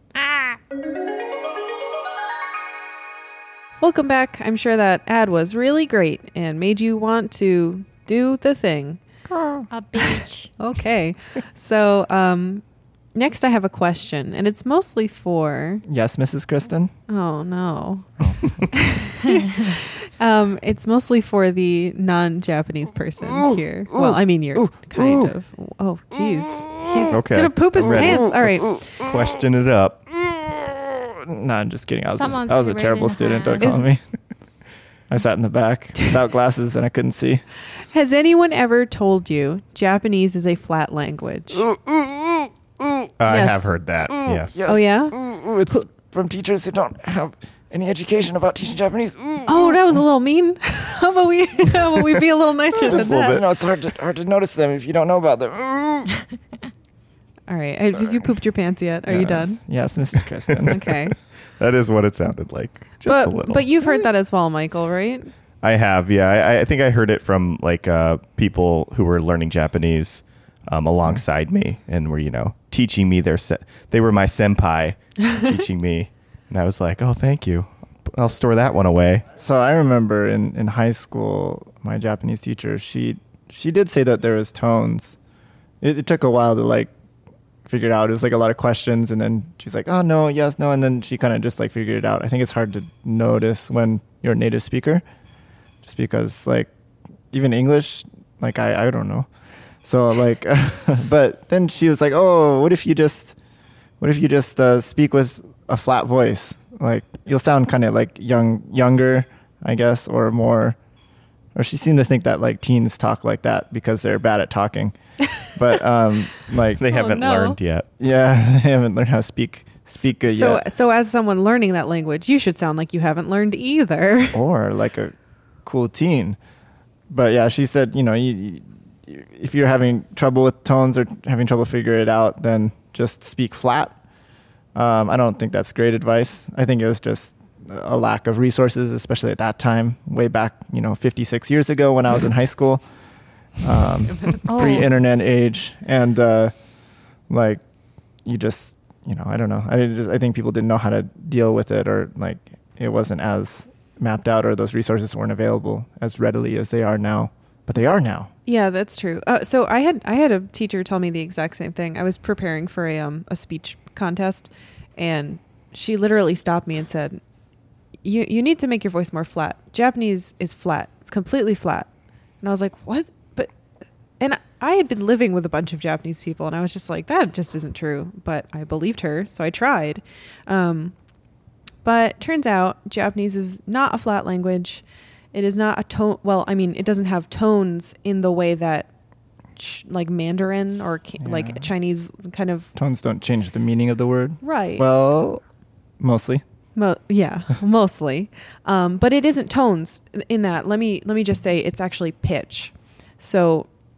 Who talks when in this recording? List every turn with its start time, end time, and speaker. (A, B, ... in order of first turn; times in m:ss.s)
0:00.1-0:00.6 A
0:03.8-0:09.0 B
0:09.7-0:10.5 A
0:10.6-0:12.6 B
0:13.1-0:15.8 B
0:15.9-0:16.9 C
0:17.1-0:28.8 B
0:18.2-0:18.6 C
0:24.5-0:25.3 C
0:27.1-0:30.2 D
0:31.2-0:34.0 C
0:32.1-0:33.8 A
0:33.6-0:33.8 B
0:35.1-0:37.4 C
0:37.9-0:41.6 B
0:43.2-0:44.7 D
0:43.3-0:43.7 B
0:44.3-0:49.8 C
0:44.6-0:45.2 B
0:49.4-0:53.4 B
0:52.8-0:56.1 C
0:52.8-0:53.4 D
0:57.5-0:59.6 B
0:59.1-1:00.9 C
1:00.5-1:00.7 D
1:00.7-1:01.1 B
1:01.6-1:03.6 D
1:03.0-1:05.3 B
1:05.6-1:19.2 D
1:19.4-1:25.2 C
1:25.8-1:26.9 C
1:27.6-1:35.0 C
1:35.8-1:36.7 C
1:37.3-1:39.3 C
1:39.8-1:43.4 C
1:44.0-1:50.8 C
1:51.5-1:56.8 C
1:56.8-1:57.9 D
1:56.9-1:57.6 B
1:58.0-2:00.6 C
2:00.1-2:04.4 B
2:04.3-2:05.1 C
2:05.6-2:06.4 C
2:07.1-2:14.0 C
2:14.7-2:22.8 C
2:23.6-2:26.5 C
2:24.2-2:24.8 B
2:24.5-2:24.8 A
2:27.3-2:27.6 C
2:28.2-2:38.3 C
2:38.4-2:47.2 B
2:48.0-2:51.9 B
2:52.4-2:53.5 B
2:54.2-3:00.9 B
3:01.8-3:08.9 B
3:09.6-3:12.7 B
3:11.2-3:11.7 C
3:12.7-3:15.4 C
3:14.4-3:14.8 B
3:16.0-3:16.4 C
3:16.8-3:23.7 B